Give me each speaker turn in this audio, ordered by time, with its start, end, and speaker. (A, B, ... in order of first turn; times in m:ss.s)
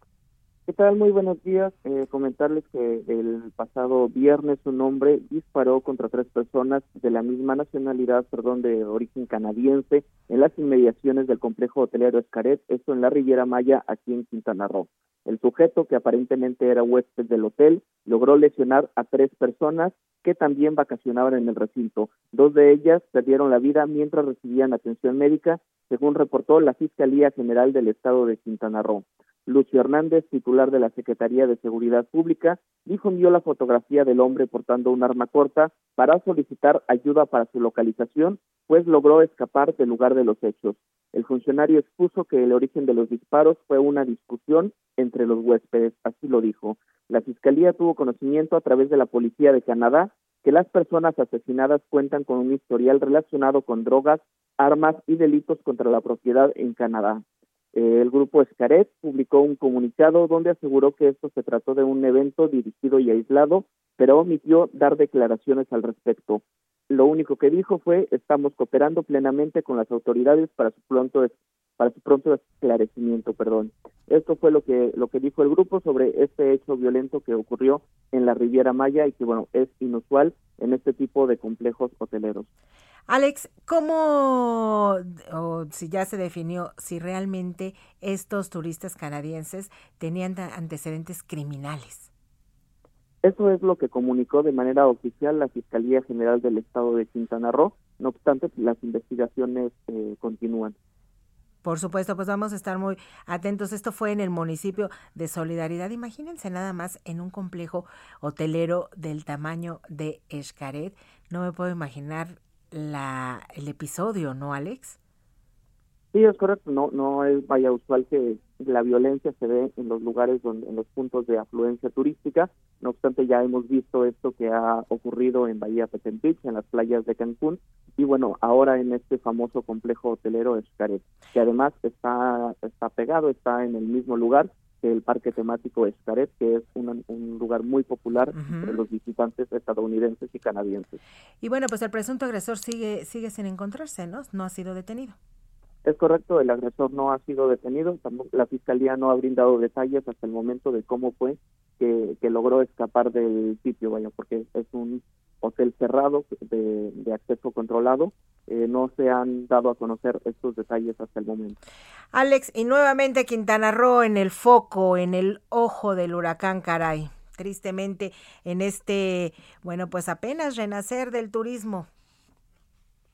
0:00.7-1:22.5 A
1:23.1-1:32.1 B
1:33.2-1:40.8 A
1:41.6-1:55.0 B
1:56.1-2:21.0 A
2:18.3-2:18.8 B
2:21.4-2:25.2 B
2:25.8-2:41.6 A
2:42.1-2:51.9 B